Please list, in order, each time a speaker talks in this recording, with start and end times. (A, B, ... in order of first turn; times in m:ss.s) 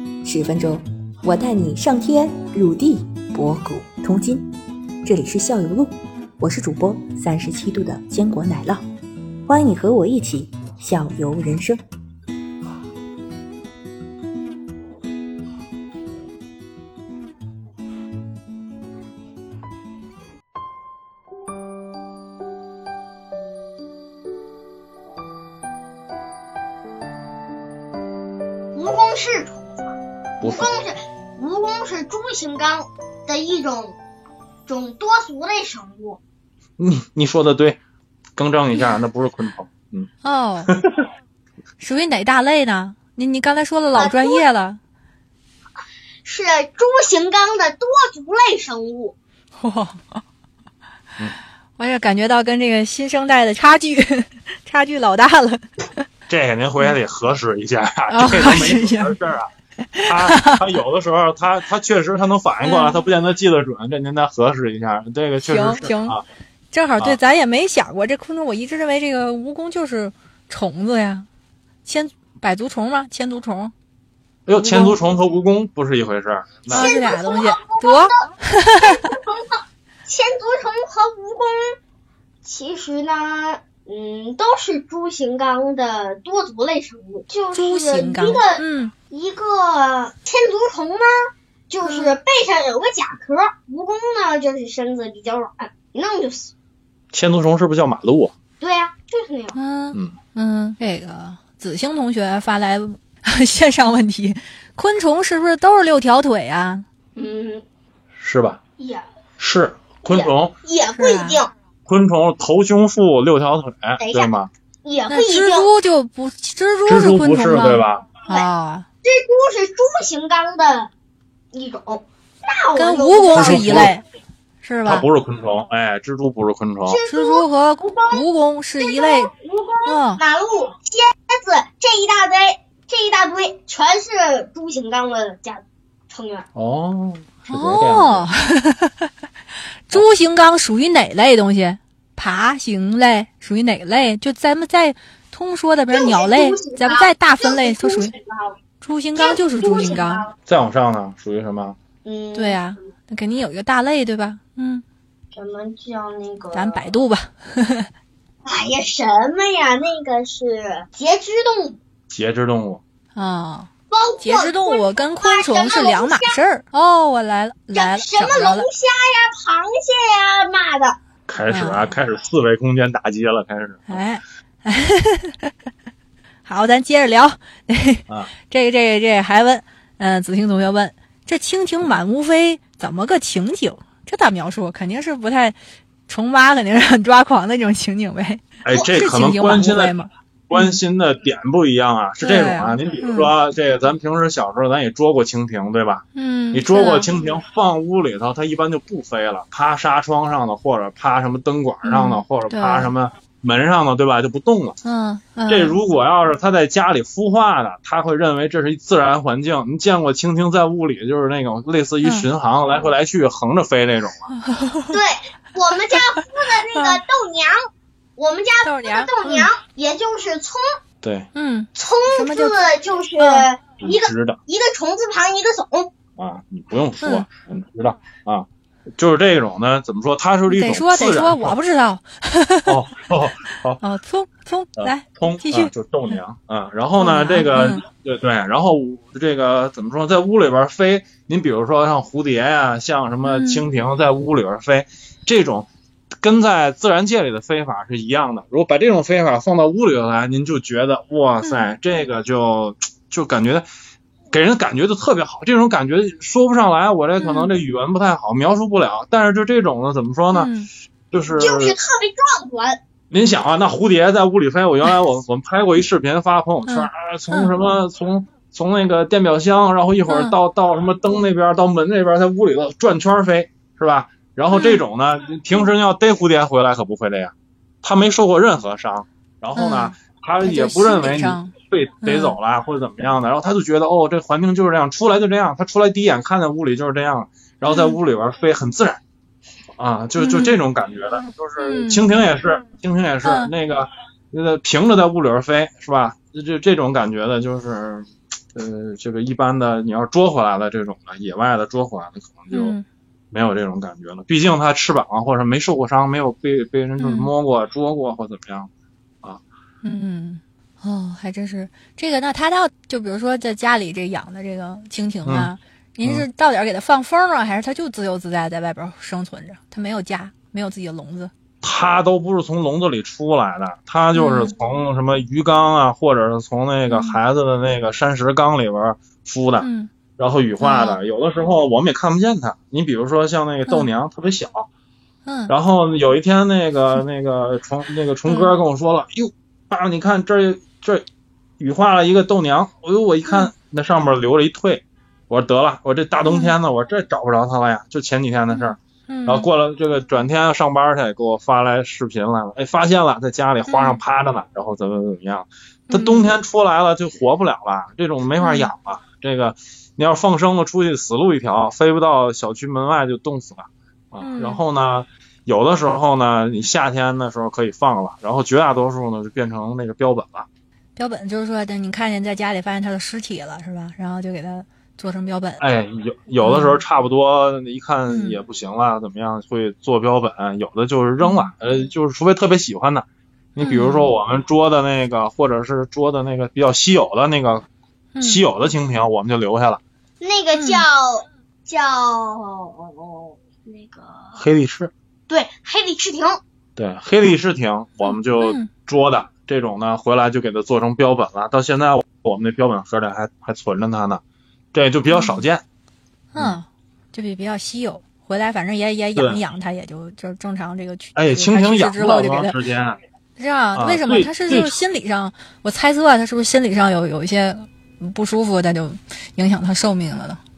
0:00.2-0:04.4 A
0:05.1-0:05.9 A
0:06.4-0:08.8 A
0:09.5-0:11.8 A
0:28.7-0:34.0 B
0:30.4-0:30.7 C
0:34.7-0:36.2 B
0:36.8-0:37.8 C
0:38.4-0:40.1 C
0:40.2-0:40.7 D
0:41.8-0:44.8 D
0:43.9-0:44.4 B
0:46.2-0:49.2 B
0:49.6-0:50.2 D
0:51.8-0:56.1 D
0:56.3-0:59.5 C
0:58.1-0:59.2 D
0:59.9-1:00.6 D
1:00.0-1:06.2 C
1:02.6-1:03.1 D
1:05.4-1:06.2 D
1:06.7-1:11.3 D
1:11.8-1:13.7 D
1:14.5-1:16.9 C
1:14.6-1:15.0 D
1:16.7-1:19.0 D
1:16.7-1:21.8 B
1:22.4-1:31.1 B
1:27.5-1:28.9 D
1:31.7-1:36.5 B
1:31.8-1:32.2 D
1:37.1-1:38.3 C
1:38.6-1:39.6 B
1:39.5-1:46.9 D
1:47.2-1:47.6 B
1:48.2-1:48.6 C
1:48.8-1:49.0 B
1:49.4-1:50.6 C
1:50.1-1:51.5 B
1:51.0-1:51.4 D
1:51.9-1:54.5 C
1:54.0-1:55.7 B
1:55.1-1:58.9 D
1:56.9-1:58.1 C
1:59.0-2:00.9 B
2:01.5-2:03.9 B
2:02.7-2:04.0 D
2:03.3-2:03.9 C
2:04.6-2:05.1 D
2:04.8-2:07.0 C
2:06.9-2:08.2 B
2:07.1-2:09.3 D
2:08.8-2:16.5 B
2:09.9-2:10.2 D
2:16.6-2:18.3 C
2:17.4-2:19.1 D
2:19.9-2:28.1 D
2:25.9-2:28.6 B
2:28.8-2:30.3 D
2:29.2-2:30.3 B
2:30.5-2:31.8 C
2:32.0-2:32.7 B
2:32.3-2:34.8 D
2:35.3-2:36.9 B
2:36.5-2:37.9 D
2:38.4-2:41.8 B
2:42.1-2:42.8 C
2:43.2-2:43.7 D
2:43.9-2:46.4 B
2:44.2-2:48.7 D
2:47.7-2:51.0 B
2:51.3-2:54.1 C
2:51.5-2:51.9 D
2:53.9-2:55.5 D
2:56.5-3:10.8 D
3:08.6-3:10.0 C
3:10.5-3:24.8 C
3:12.2-3:13.3 D
3:16.1-3:17.1 D
3:21.8-3:22.9 D
3:24.8-3:25.8 D
3:25.5-3:34.3 C
3:32.0-3:32.3 D
3:34.3-3:34.9 D
3:34.9-3:37.6 B
3:38.2-3:40.6 B
3:38.6-3:39.5 D
3:41.0-3:41.3 C
3:41.3-3:42.6 D
3:41.8-3:45.9 B
3:43.2-3:43.5 D
3:43.8-3:44.4 C
3:46.2-3:48.5 C
3:47.0-3:47.3 D
3:49.0-3:51.6 C
3:50.5-3:52.8 D
3:52.7-3:53.8 C
3:53.8-3:56.2 D
3:54.8-4:05.7 C
3:57.0-3:57.8 D
4:03.2-4:03.6 D
4:06.2-4:13.7 C
4:11.4-4:11.7 D
4:14.3-4:20.5 C
4:17.2-4:17.5 D
4:20.3-4:20.7 D
4:21.1-4:21.8 C
4:21.4-4:22.8 B
4:23.1-4:37.3 C
4:26.7-4:27.5 D
4:30.1-4:30.4 D
4:34.5-4:34.8 D
4:37.8-4:49.0 C
4:39.6-4:42.4 D
4:47.7-4:48.0 D
4:49.8-5:02.8 C
4:50.2-4:50.6 D
4:51.6-4:52.1 D
4:53.2-4:53.5 D
5:02.5-5:02.8 D
5:03.3-5:08.7 C
5:07.0-5:07.3 D
5:09.8-5:21.3 D
5:15.2-5:15.5 C
5:21.6-5:34.7 C
5:24.1-5:24.6 D
5:26.9-5:27.2 D
5:29.6-5:29.9 D
5:30.6-5:31.0 D
5:35.2-5:35.5 D
5:35.5-5:41.0 C
5:38.3-5:38.6 D
5:41.6-6:10.5 C
5:43.3-5:43.5 D
5:46.2-5:46.6 D
5:48.5-5:49.5 D
5:53.7-5:54.0 D
5:55.9-5:56.3 D
5:58.4-5:58.7 D
6:04.2-6:04.6 D
6:11.0-6:15.6 D
6:15.6-6:27.6 C
6:16.4-6:16.8 D
6:18.1-6:18.4 D
6:21.2-6:21.5 D
6:23.6-6:24.1 D
6:28.2-6:28.5 D
6:28.2-6:29.8 C
6:30.2-6:34.4 B
6:30.5-6:30.8 D
6:34.4-6:34.9 C
6:35.3-6:36.4 B
6:36.8-6:44.2 C
6:38.0-6:38.7 D
6:44.7-6:45.6 C
6:45.1-6:45.4 D
6:46.3-6:52.6 D
6:49.2-6:49.4 C
6:51.2-6:53.0 C
6:53.4-7:00.4 D
6:53.8-6:54.8 C